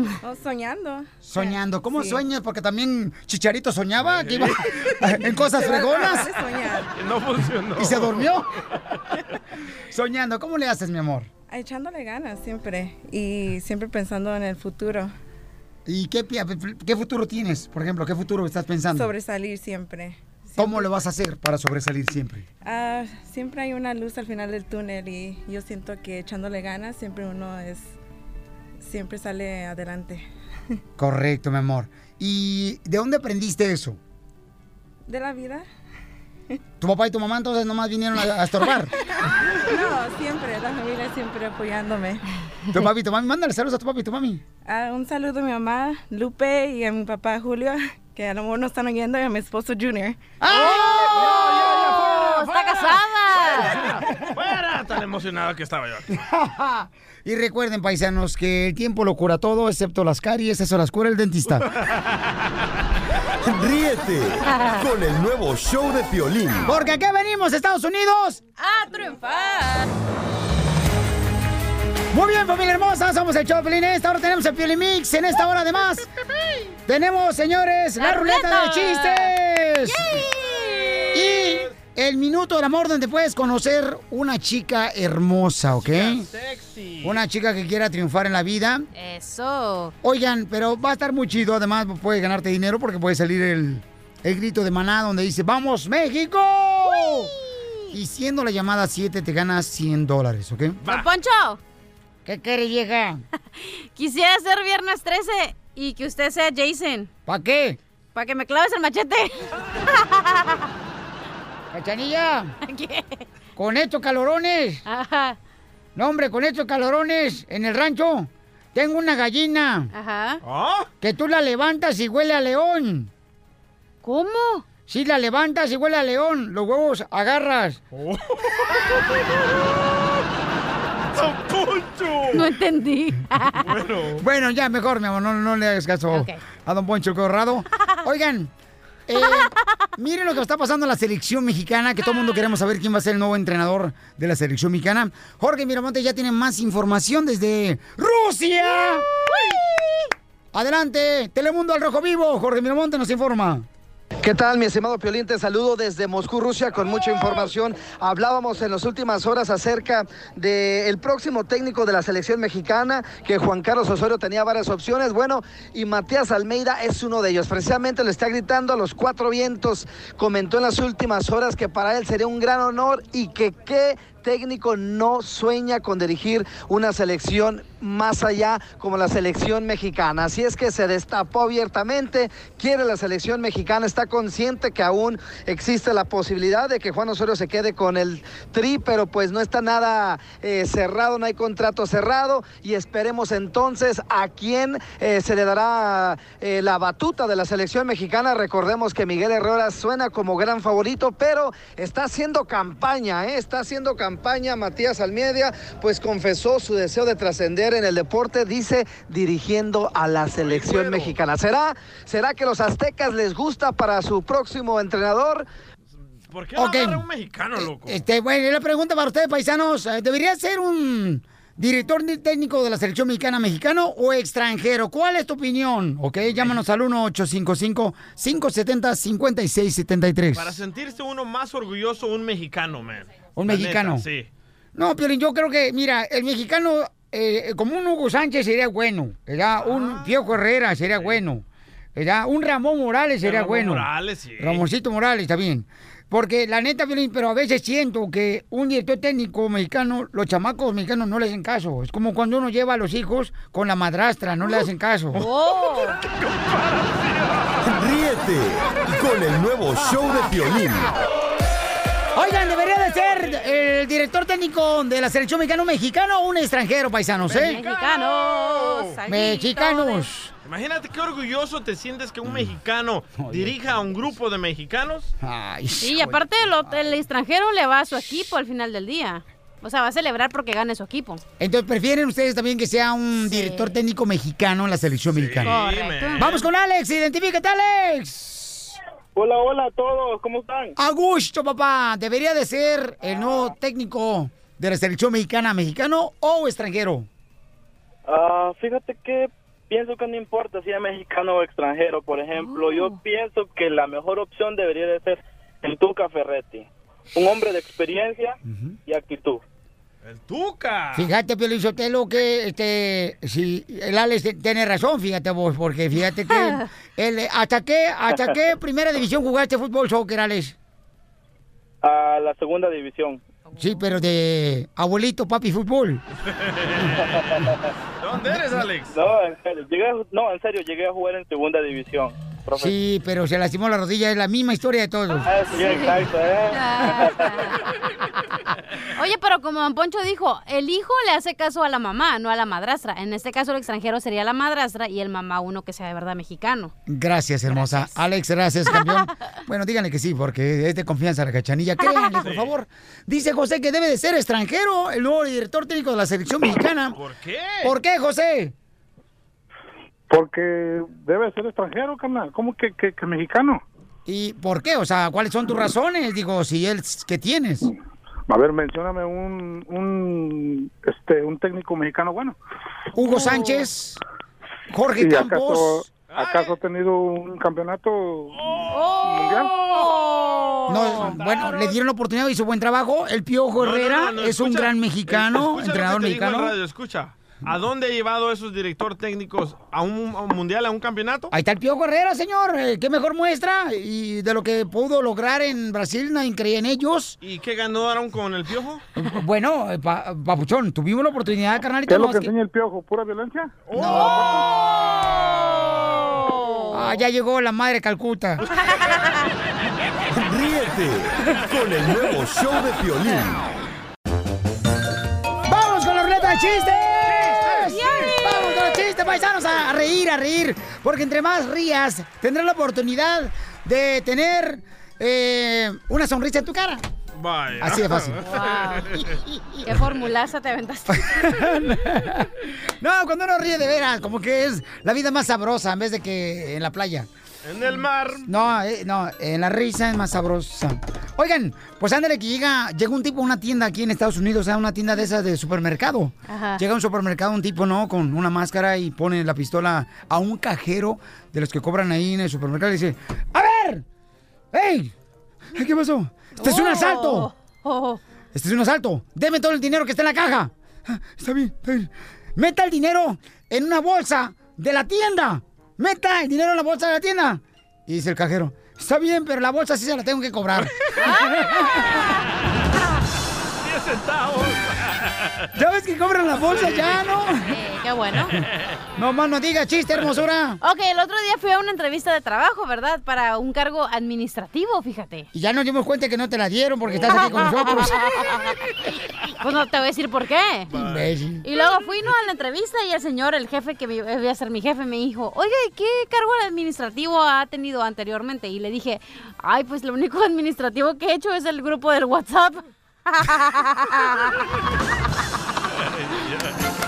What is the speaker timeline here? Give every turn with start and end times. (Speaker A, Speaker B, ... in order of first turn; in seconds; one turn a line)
Speaker A: 0.2-2.2
Speaker B: 1.2-6.3
Speaker C: 4.1-4.9
Speaker A: 5.4-6.9
Speaker C: 6.9-8.3
Speaker B: 7.8-8.5
Speaker B: 9.9-11.3
Speaker A: 11.5-15.1
Speaker B: 15.9-19.1
Speaker A: 18.9-20.9
Speaker B: 20.6-22.5
Speaker A: 22.6-27.9
Speaker A: 28.8-30.3
Speaker B: 31.0-34.0
Speaker A: 35.1-35.6
Speaker B: 36.8-38.9
Speaker A: 39.2-42.2
Speaker B: 42.7-44.4
Speaker A: 44.6-50.3
Speaker B: 50.4-52.8
Speaker D: 50.5-53.8
Speaker C: 50.8-52.1
Speaker C: 53.4-56.2
Speaker B: 53.9-54.2
Speaker B: 56.1-61.7
Speaker C: 61.7-62.0
Speaker E: 63.4-66.7
Speaker D: 64.6-64.8
Speaker B: 66.7-68.4
Speaker D: 68.6-69.9
Speaker B: 72.1-76.1
Speaker B: 76.9-80.2
Speaker D: 78.0-79.3
Speaker D: 79.8-81.1
Speaker B: 81.1-86.3
Speaker C: 81.4-81.7
Speaker C: 85.8-87.2
Speaker B: 87.0-88.9
Speaker D: 88.9-89.9
Speaker B: 90.0-97.3
Speaker D: 96.9-97.9
Speaker B: 97.9-100.8
Speaker D: 100.9-101.6
Speaker B: 102.3-103.2
Speaker D: 103.6-107.1
Speaker B: 107.3-107.8
Speaker D: 108.1-110.7
Speaker B: 111.7-112.5
Speaker D: 112.6-113.2
Speaker B: 113.6-114.8
Speaker D: 114.9-115.4
Speaker B: 116.0-119.9
Speaker D: 119.9-120.4
Speaker C: 120.4-120.9
Speaker B: 121.0-123.1
Speaker D: 124.0-124.7
Speaker B: 124.9-127.8
Speaker C: 127.9-129.0
Speaker C: 131.1-132.5
Speaker D: 132.3-133.6
Speaker C: 133.6-134.2
Speaker B: 134.2-138.5
Speaker D: 136.1-136.4
Speaker B: 139.1-149.1
Speaker D: 139.2-139.5
Speaker D: 149.3-150.0
Speaker B: 150.5-153.7
Speaker F: 154.2-215.5
Speaker C: 210.4-211.2
Speaker C: 216.3-218.0
Speaker B: 216.6-217.1
Speaker B: 217.6-230.6
Speaker C: 230.3-234.3
Speaker B: 233.4-234.1
Speaker B: 234.8-243.9
Speaker C: 239.6-240.2
Speaker C: 243.2-244.7
Speaker B: 244.4-255.2
Speaker D: 255.2-256.0
Speaker C: 256.1-257.6
Speaker E: 257.6-260.9
Speaker B: 262.1-267.6
Speaker C: 267.3-269.0
Speaker D: 267.3-270.1
Speaker B: 269.1-270.3
Speaker C: 270.4-275.1
Speaker B: 272.3-272.5
Speaker B: 273.2-273.6
Speaker B: 275.2-277.0
Speaker D: 275.8-281.2
Speaker B: 281.4-285.6
Speaker D: 283.2-283.8
Speaker C: 285.1-286.5
Speaker D: 285.4-286.2
Speaker B: 286.2-288.8
Speaker G: 289.1-290.8
Speaker B: 290.8-297.1
Speaker G: 298.1-309.4
Speaker D: 302.4-303.0
Speaker B: 308.5-308.8
Speaker C: 310.0-311.1
Speaker B: 310.9-320.6
Speaker D: 316.3-316.6
Speaker G: 321.8-323.2
Speaker B: 323.6-326.0
Speaker C: 326.3-327.0
Speaker G: 327.1-327.5
Speaker C: 328.0-328.9
Speaker G: 328.9-332.7
Speaker B: 332.6-335.3
Speaker G: 335.2-337.4
Speaker D: 335.5-337.6
Speaker D: 338.9-346.7
Speaker B: 346.9-357.0
Speaker D: 347.5-348.0
Speaker D: 348.7-349.0
Speaker D: 351.8-352.2
Speaker C: 352.2-352.5
Speaker C: 356.9-357.7
Speaker B: 357.6-358.5
Speaker H: 360.1-363.5
Speaker B: 364.1-367.7
Speaker H: 368.3-372.3
Speaker B: 372.9-374.0
Speaker D: 373.2-373.5
Speaker B: 374.7-375.9
Speaker H: 375.0-378.3
Speaker C: 376.1-376.6
Speaker C: 378.3-378.8
Speaker D: 378.7-381.0
Speaker C: 379.6-381.8
Speaker B: 380.7-386.6
Speaker C: 383.6-391.3
Speaker B: 391.3-397.2
Speaker C: 397.2-398.8
Speaker B: 399.0-402.3
Speaker H: 401.9-403.5
Speaker C: 403.7-406.7
Speaker B: 403.8-404.2
Speaker B: 406.7-408.4
Speaker E: 410.1-413.4
Speaker B: 415.4-426.8
Speaker C: 417.1-417.8
Speaker D: 417.7-418.7
Speaker C: 427.2-429.1
Speaker B: 427.6-428.2
Speaker D: 428.2-429.0
Speaker B: 429.3-429.7
Speaker D: 429.6-431.3
Speaker B: 430.9-437.1
Speaker C: 437.4-438.3
Speaker B: 438.3-453.9
Speaker D: 446.3-446.6
Speaker B: 454.5-454.9
Speaker B: 455.6-457.3
Speaker D: 456.4-458.0
Speaker B: 458.3-471.9
Speaker D: 471.0-471.9
Speaker C: 473.6-475.4
Speaker B: 475.6-477.6
Speaker C: 476.5-477.1
Speaker D: 477.5-478.3
Speaker B: 479.0-480.6
Speaker D: 480.6-485.3
Speaker B: 485.3-488.1
Speaker D: 487.1-488.4
Speaker D: 489.4-490.7
Speaker C: 490.7-491.1
Speaker B: 490.7-491.4
Speaker D: 491.4-504.4
Speaker C: 506.0-506.4